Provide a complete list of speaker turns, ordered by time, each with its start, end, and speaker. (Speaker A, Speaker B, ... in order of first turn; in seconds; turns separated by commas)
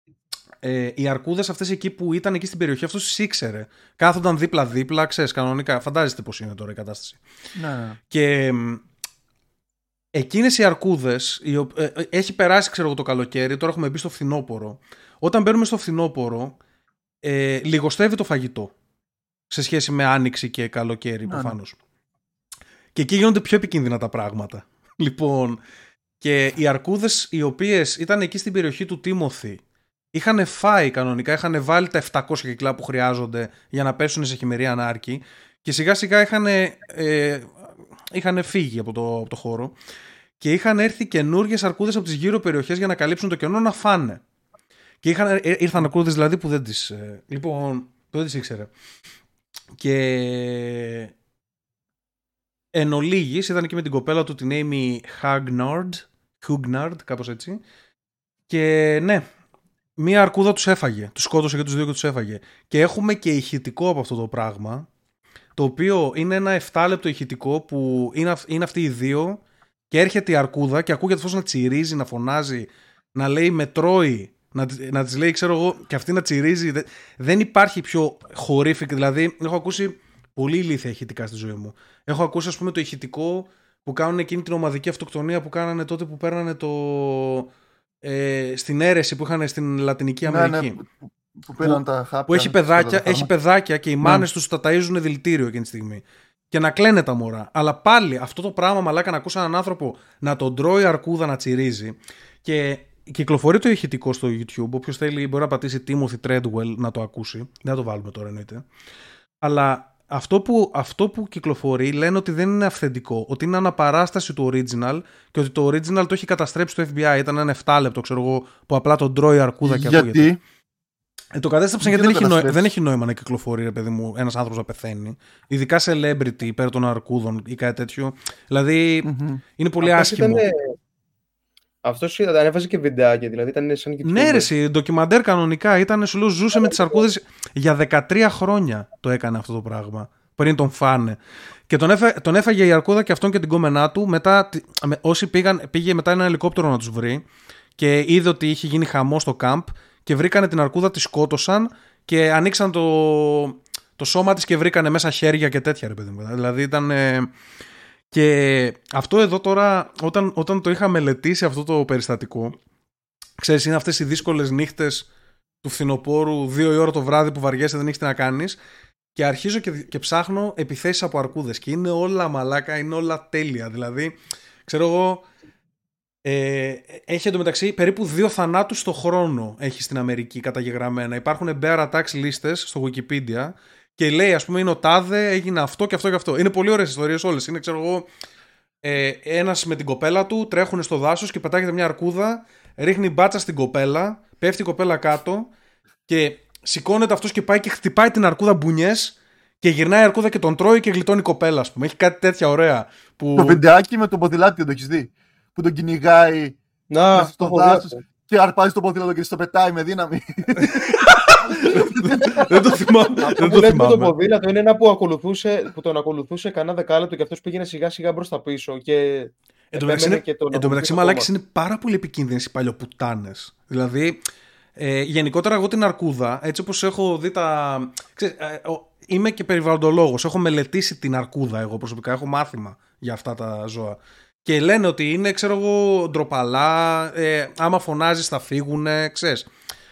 Speaker A: 0.6-7.2, Speaker B: 7.5-8.0, Speaker A: 8.1-8.8, Speaker A: 10.1-16.6, Speaker A: 17.2-18.7, Speaker A: 19.5-21.8, Speaker B: 21.2-21.5, Speaker A: 22.9-25.6, Speaker A: 26.2-29.6, Speaker A: 30.1-37.5, Speaker A: 38.1-39.7, Speaker A: 40.4-44.2, Speaker A: 45.0-48.7, Speaker A: 49.8-51.1, Speaker A: 52.7-57.6, Speaker A: 58.5-59.2, Speaker A: 60.0-64.9, Speaker A: 65.5-87.5, Speaker A: 88.0-90.8, Speaker B: 90.2-93.3, Speaker A: 91.6-108.7, Speaker A: 109.4-120.3, Speaker B: 119.6-120.4, Speaker A: 121.3-130.4, Speaker B: 121.8-122.6, Speaker B: 129.0-129.4, Speaker C: 129.8-130.7, Speaker C: 131.8-134.5, Speaker A: 134.0-141.2, Speaker C: 136.5-137.0, Speaker A: 141.7-147.2, Speaker A: 147.8-157.3, Speaker A: 158.1-162.6, Speaker A: 163.4-165.1, Speaker A: 165.6-168.6, Speaker A: 169.1-174.1, Speaker A: 174.7-175.2, Speaker A: 176.2-188.1, Speaker A: 188.8-195.5, Speaker A: 196.1-203.6, Speaker B: 203.3-206.6, Speaker C: 206.9-208.0, Speaker B: 207.1-212.9, Speaker A: 210.6-214.1, Speaker C: 213.2-221.3, Speaker A: 219.7-224.2, Speaker A: 224.8-239.5